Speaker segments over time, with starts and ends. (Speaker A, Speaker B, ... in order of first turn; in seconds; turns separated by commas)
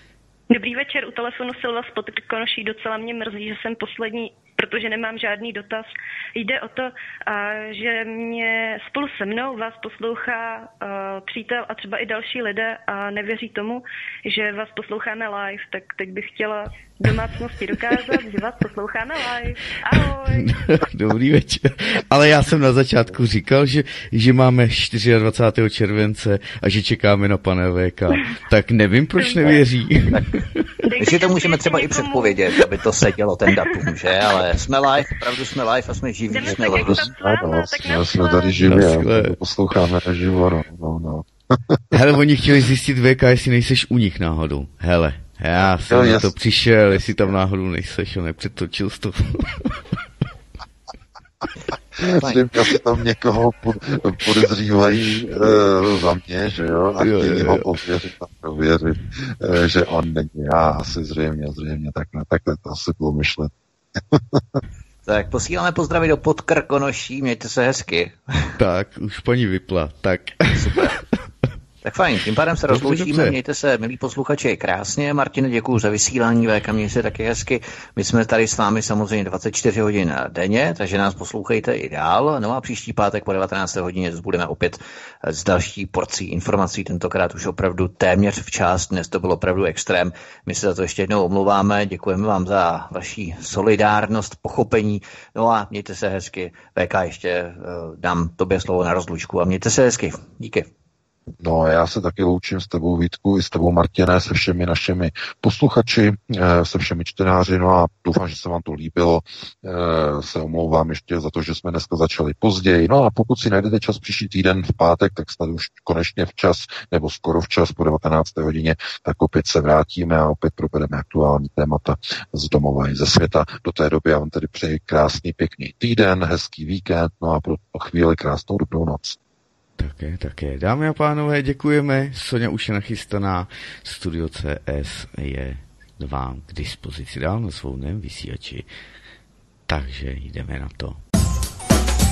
Speaker A: 0.5-20.5, Speaker B: 19.9-30.7, Speaker A: 29.2-29.7, Speaker A: 30.8-32.6, Speaker C: 30.9-37.1, Speaker A: 33.5-34.4, Speaker A: 36.3-38.9, Speaker D: 36.5-41.8, Speaker B: 38.6-39.4, Speaker B: 41.9-49.8, Speaker D: 45.9-46.3, Speaker D: 52.0-63.5, Speaker B: 57.0-57.7, Speaker D: 64.1-64.6, Speaker C: 65.0-68.5, Speaker B: 68.6-71.0, Speaker C: 70.5-71.0, Speaker C: 71.8-100.7, Speaker B: 72.7-73.4, Speaker D: 101.4-129.2, Speaker B: 129.8-138.7, Speaker B: 139.7-141.0